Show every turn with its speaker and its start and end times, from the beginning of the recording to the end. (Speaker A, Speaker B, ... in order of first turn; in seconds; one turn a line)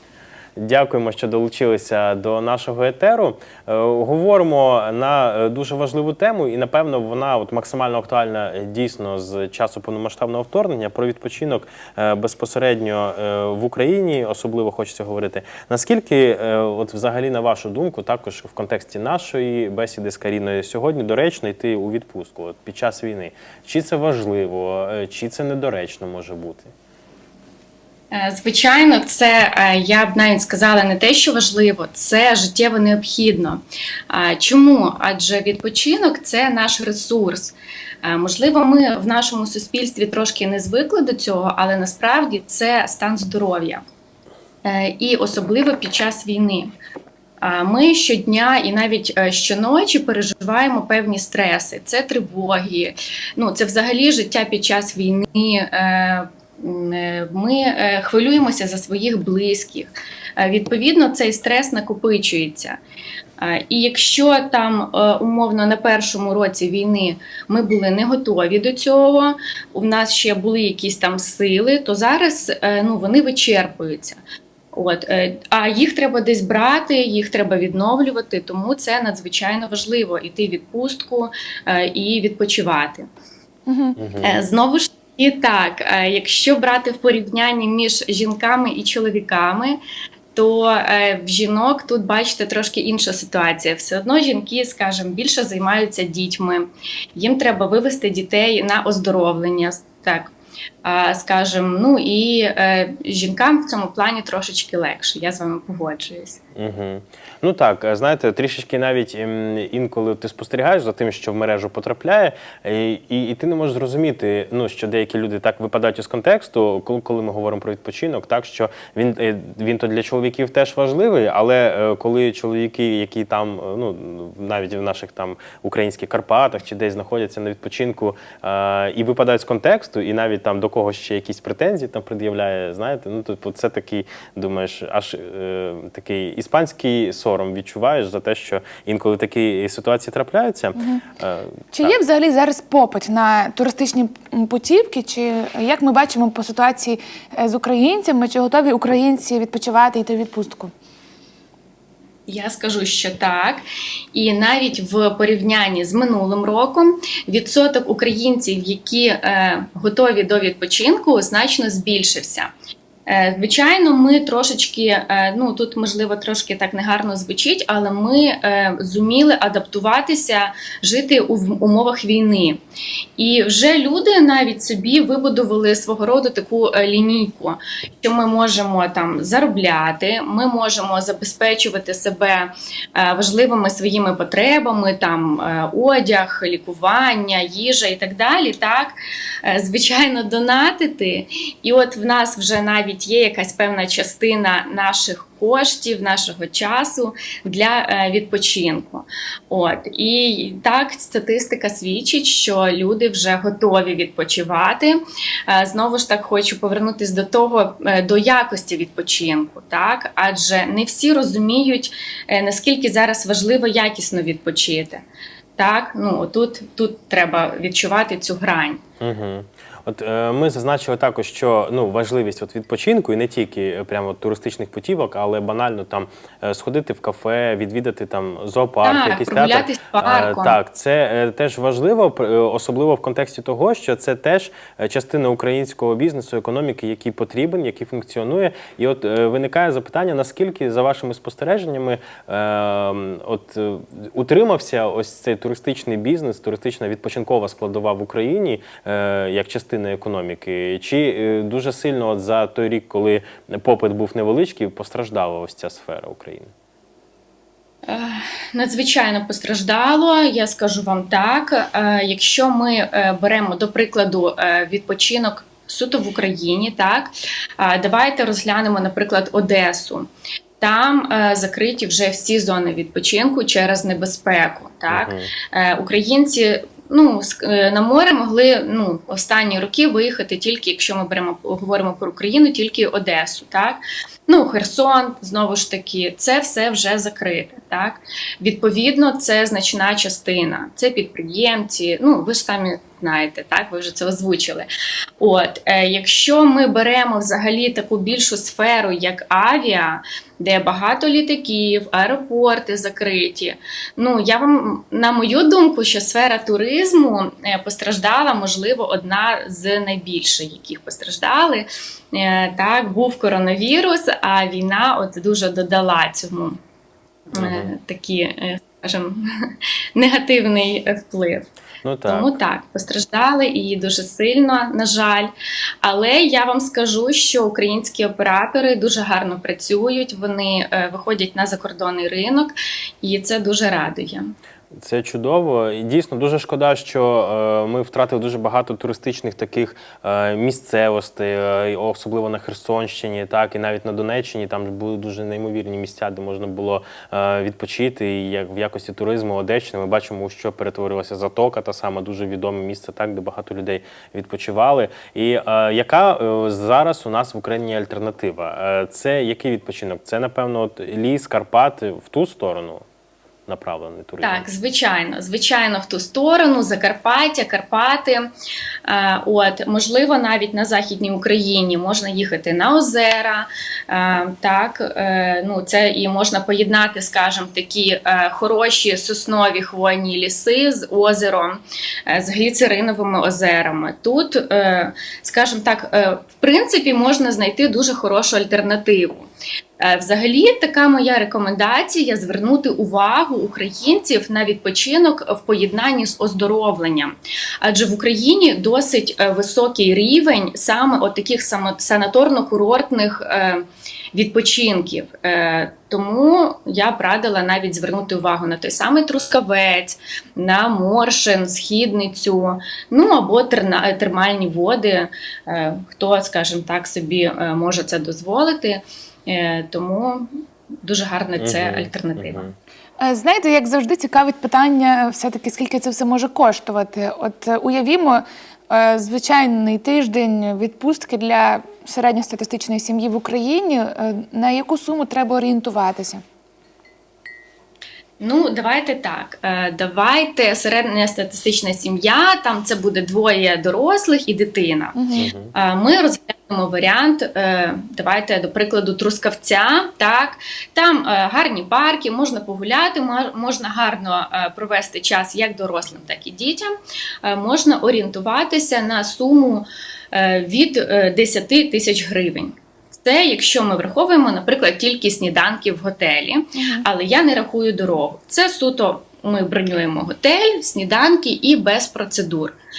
Speaker A: 0.6-26.7
Speaker B: 28.1-43.8
Speaker B: 44.6-46.7
Speaker B: 47.4-62.8
Speaker B: 63.4-74.2
Speaker B: 74.7-83.1
Speaker C: 83.7-84.0
Speaker A: 84.0-84.4
Speaker B: 84.2-89.8
Speaker B: 90.3-100.3
Speaker B: 100.8-106.4
Speaker A: 106.5-142.0
Speaker C: 140.8-141.0
Speaker C: 141.7-150.7
Speaker B: 152.3-162.5
Speaker B: 163.1-172.6
Speaker B: 173.2-189.0
Speaker B: 189.5-215.0
Speaker B: 215.6-218.8
Speaker A: 219.0-256.5
Speaker B: 228.8-230.6
Speaker B: 257.9-270.1
Speaker B: 270.6-294.7
Speaker A: 274.9-275.3
Speaker B: 295.2-316.6
Speaker B: 317.3-319.2
Speaker A: 317.3-317.7
Speaker B: 319.9-321.5
Speaker A: 321.8-322.3
Speaker B: 322.1-325.3
Speaker B: 325.8-334.3
Speaker A: 334.7-362.8
Speaker A: 363.5-364.4
Speaker B: 364.2-368.3
Speaker B: 368.8-389.3
Speaker B: 389.8-420.3
Speaker B: 420.8-422.5
Speaker A: 421.4-422.5
Speaker C: 423.0-436.2
Speaker B: 438.2-444.9
Speaker C: 444.9-445.3
Speaker A: 445.2-445.5
Speaker B: 445.5-456.7
Speaker B: 457.2-472.5
Speaker C: 466.6-466.9